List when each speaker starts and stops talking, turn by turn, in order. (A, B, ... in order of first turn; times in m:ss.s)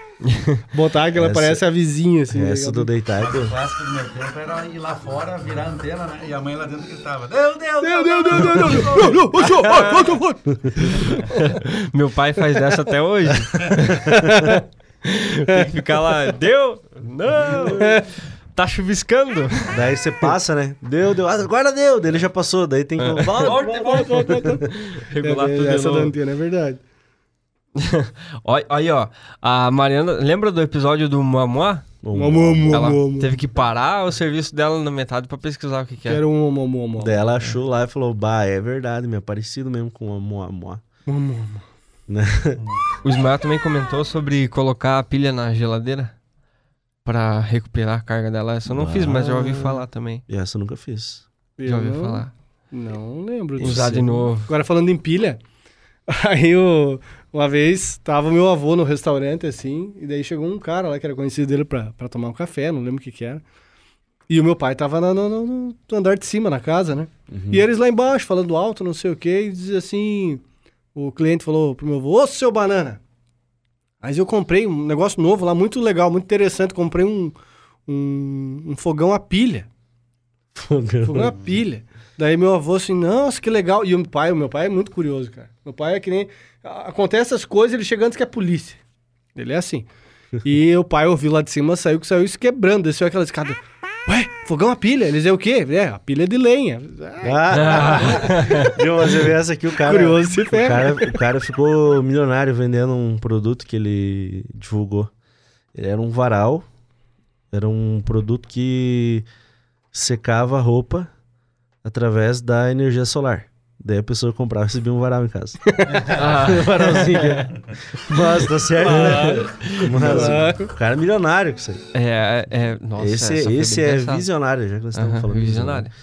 0:00.3-0:00.6 A
0:00.7-0:02.9 B
0:01.1-0:01.6 C
0:02.3-0:03.6 C
0:03.2-0:09.9 D
0:07.8-0:11.4 B
0:09.5-0:10.1 A
0:10.5-0:10.8 C
0:10.8-0:14.5 A
0:14.0-0:14.4 C
0:14.0-0:14.6 B
0:15.0-0:19.7 A
0:17.7-0:18.1 B
0:19.7-0:23.7 C
0:23.0-0:24.0 A
0:23.4-0:24.3 D
0:23.4-0:26.8 B
0:24.3-0:24.7 C
0:24.6-0:26.1 A
0:27.8-0:31.9 A
0:32.0-0:33.0 C
0:32.1-0:33.4 B
0:32.7-0:36.2 A
0:36.0-0:37.2 B
0:37.0-0:40.8 C
0:41.1-0:41.6 B
0:42.1-0:42.6 C
0:42.6-0:42.8 D
0:43.0-0:46.2 A
0:47.0-0:50.2 A
0:48.7-0:51.3 C
0:51.6-0:55.4 B
0:51.7-0:52.3 A
0:53.6-0:54.1 C
0:53.6-0:54.5 A
0:56.1-1:03.4 B
1:04.3-1:10.4 B
1:07.3-1:07.7 C
1:11.0-1:13.0 B
1:14.0-1:17.4 B
1:17.9-1:19.7 B
1:20.6-1:21.4 C
1:21.0-1:28.8 B
1:29.4-1:29.9 B
1:30.4-1:38.8 B
1:37.2-1:45.1 C
1:37.5-1:38.7 A
1:39.8-1:41.2 B
1:45.7-1:46.7 C
1:47.5-1:49.3 C
1:49.9-1:51.1 C
1:51.8-2:01.8 C
1:55.7-1:56.1 B
1:55.9-1:56.6 D
1:56.1-1:57.4 A
1:58.8-2:00.7 B
1:58.9-2:00.3 A
2:01.9-2:04.3 A
2:03.0-2:05.9 C
2:05.0-2:05.9 A